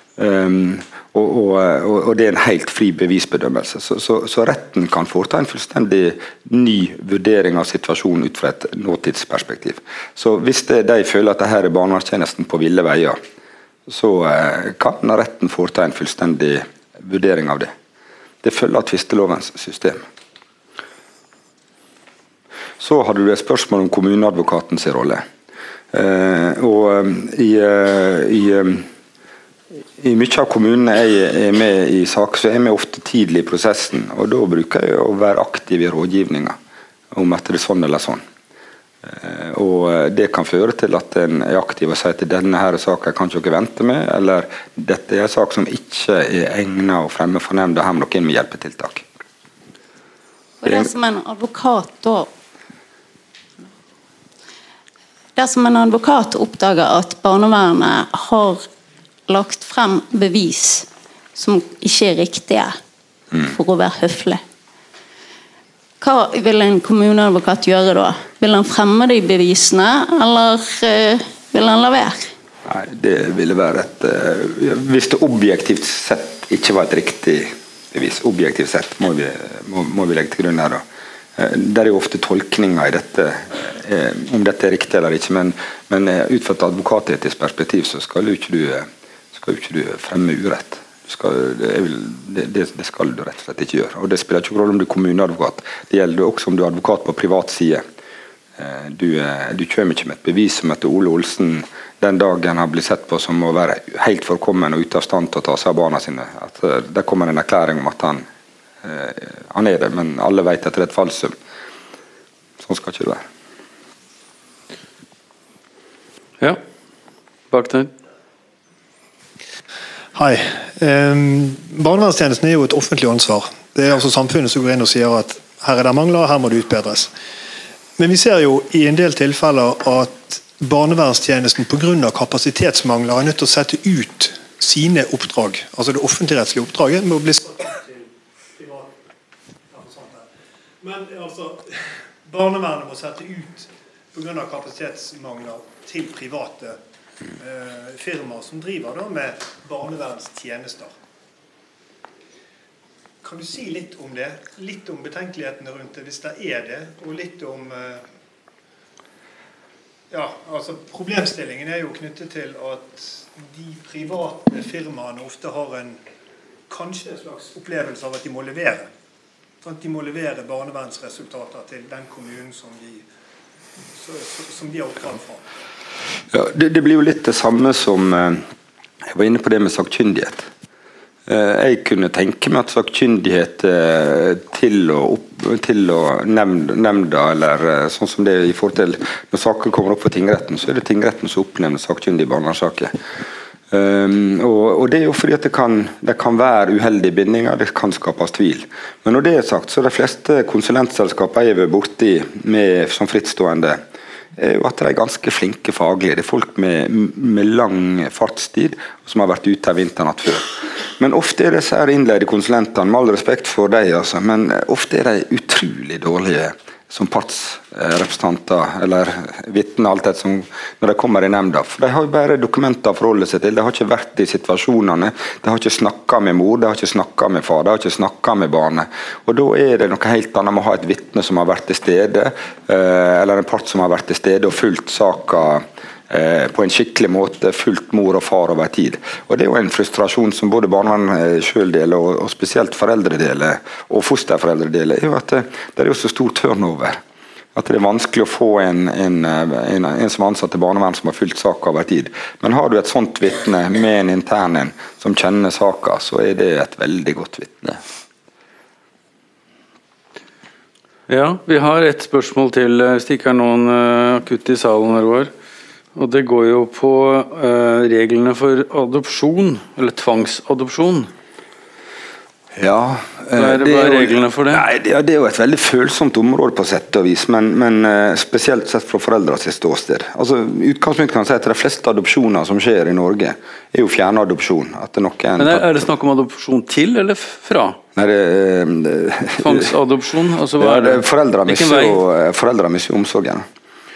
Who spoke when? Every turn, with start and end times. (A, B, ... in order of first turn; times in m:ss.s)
0:00.2-0:13.2 A
0:13.9-0:17.7 A
0:18.4-0:20.0 A
0:22.8-0:25.2 A
0:25.9-0:28.9 A
0:30.0-0:36.6 A
0:37.1-0:38.2 A
0:39.0-0:49.1 A
0:50.6-0:52.3 B
0:55.4-0:58.7 B
0:59.3-1:02.8 B
1:03.4-1:04.4 B
1:06.0-1:12.3 B
1:12.7-1:20.8 A
1:21.4-1:37.8 A
1:38.6-1:48.2 A
1:48.8-1:51.3 A
1:52.6-1:53.2 A
1:57.5-1:57.9 C
2:00.1-2:07.1 D
2:08.0-2:19.0 D
2:19.7-2:20.3 D
2:20.8-2:26.8 D
2:27.4-2:31.0 D
2:33.2-2:38.0 D
2:40.1-2:46.0 D
2:46.7-2:48.9 D
2:49.6-2:53.1 D
2:53.9-2:55.4 D
2:56.3-2:58.4 A
2:59.0-3:00.5 A
3:01.3-3:12.9 A
3:13.7-3:23.8 A
3:24.4-4:07.0 A
4:07.6-4:17.8 A
4:21.1-4:25.3 C
4:26.0-4:31.1 C
4:32.5-4:45.8 A
4:33.4-4:34.6 C
4:45.4-4:47.8 C
4:48.0-4:49.7 A
4:49.4-4:52.0 C
4:50.6-4:53.5 A